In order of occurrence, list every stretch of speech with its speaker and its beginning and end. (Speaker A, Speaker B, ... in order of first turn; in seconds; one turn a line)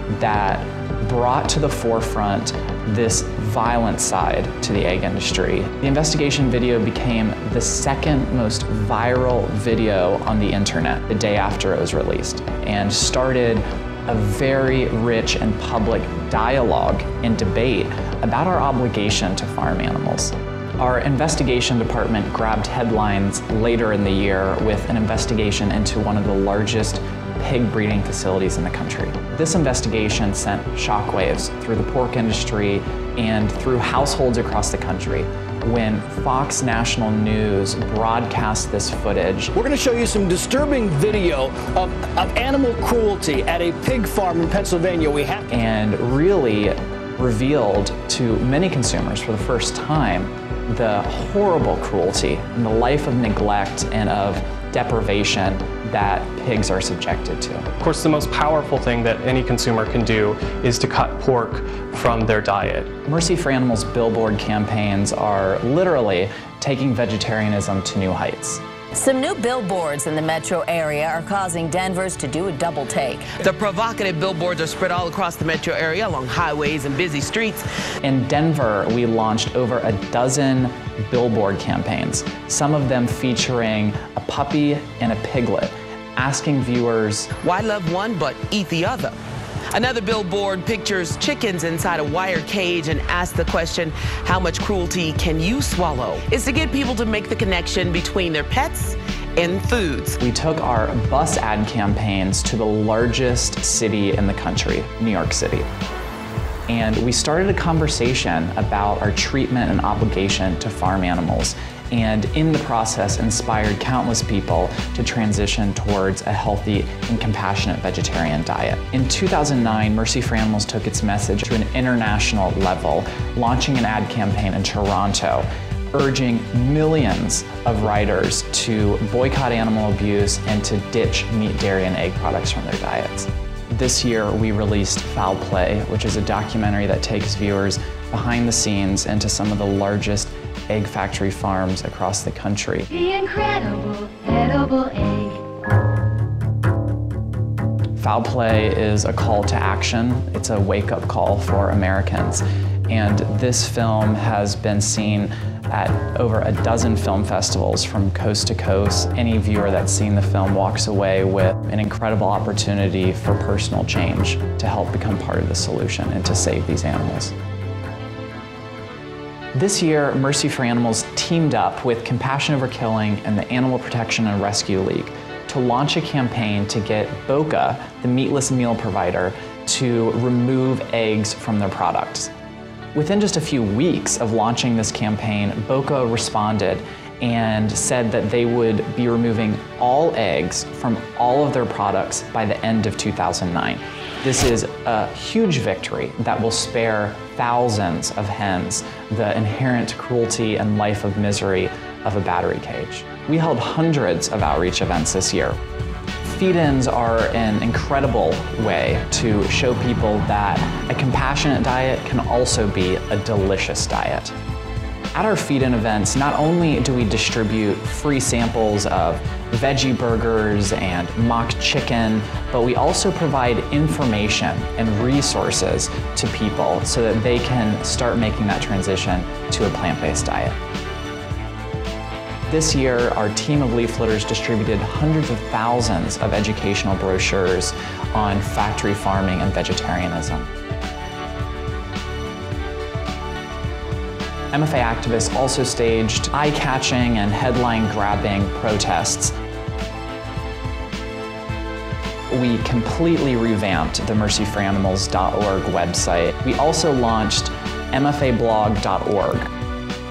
Speaker A: 0.1-39.5
Speaker B: 39.5-45.5
Speaker A: 45.5-57.6
Speaker C: 57.8-62.9
Speaker A: 63.1-68.6
Speaker D: 69.0-73.3
Speaker E: 73.4-77.6
Speaker A: 78.0-87.3
Speaker E: 87.4-89.1
Speaker E: 89.7-100.2
Speaker A: 100.2-105.7
Speaker A: 106.7-142.9
Speaker F: 142.9-145.4
Speaker A: 148.0-167.3
Speaker A: 169.6-182.3
Speaker A: 182.9-205.6
Speaker A: 206.2-214.3
Speaker A: 215.1-230.6
Speaker A: 232.5-240.5
Speaker A: 244.5-249.3
Speaker A: 252.3-259.5